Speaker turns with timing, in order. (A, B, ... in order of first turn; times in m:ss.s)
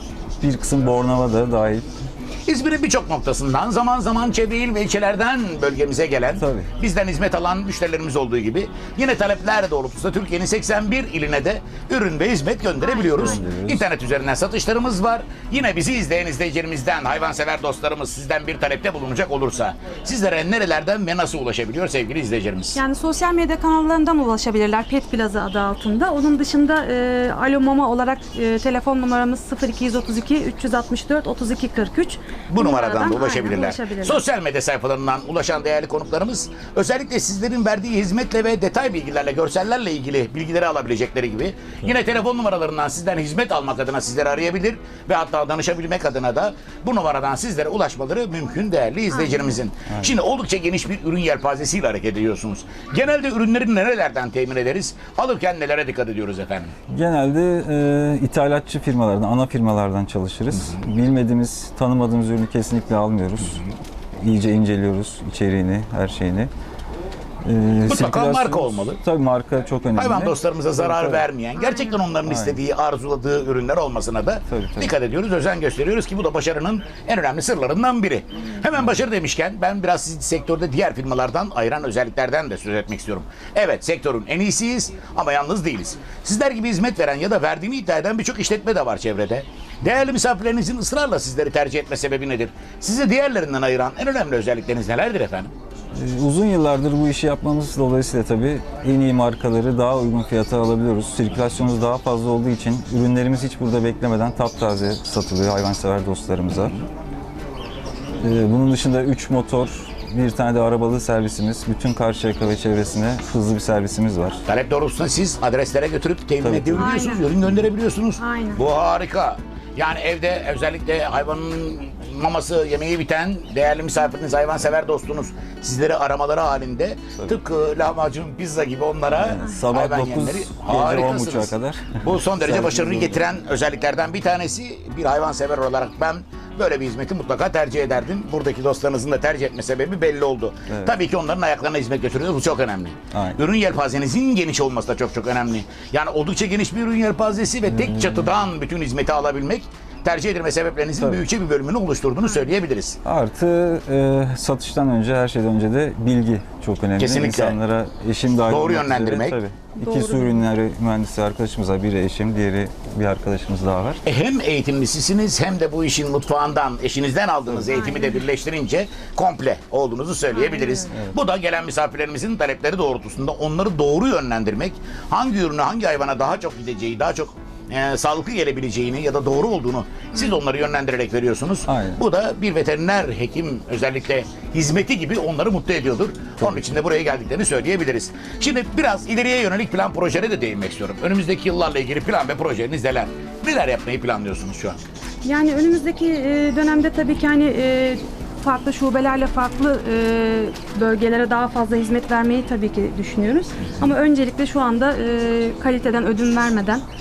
0:00.4-0:01.8 A
0:02.4-0:22.8 B
0:06.4-0:06.7 A
0:12.8-0:13.4 C
0:13.2-0:13.8 A
0:22.7-0:34.2 C
0:32.5-0:56.7 B
0:49.1-0:49.6 C
0:56.9-1:03.6 A
1:00.5-1:00.8 B
1:04.2-1:06.5 A
1:07.4-1:11.3 A
1:07.8-1:09.0 B
1:10.0-1:35.5 B
1:11.6-1:12.0 C
1:12.2-1:12.6 A
1:14.5-1:14.9 A
1:35.9-1:46.8 A
1:48.2-1:54.4 A
1:54.5-2:33.0 B
1:56.4-1:56.9 A
1:56.8-1:57.2 C
1:58.2-1:58.6 C
2:09.1-2:13.3 A
2:23.1-2:23.4 A
2:27.7-2:28.3 A
2:31.0-2:31.2 A
2:33.0-2:44.0 A
2:37.0-2:37.6 B
2:38.4-2:39.4 B
2:39.8-2:40.4 C
2:44.0-3:14.8 B
2:47.7-2:48.2 C
2:50.3-2:50.9 C
3:01.7-3:02.0 A
3:15.2-3:26.8 C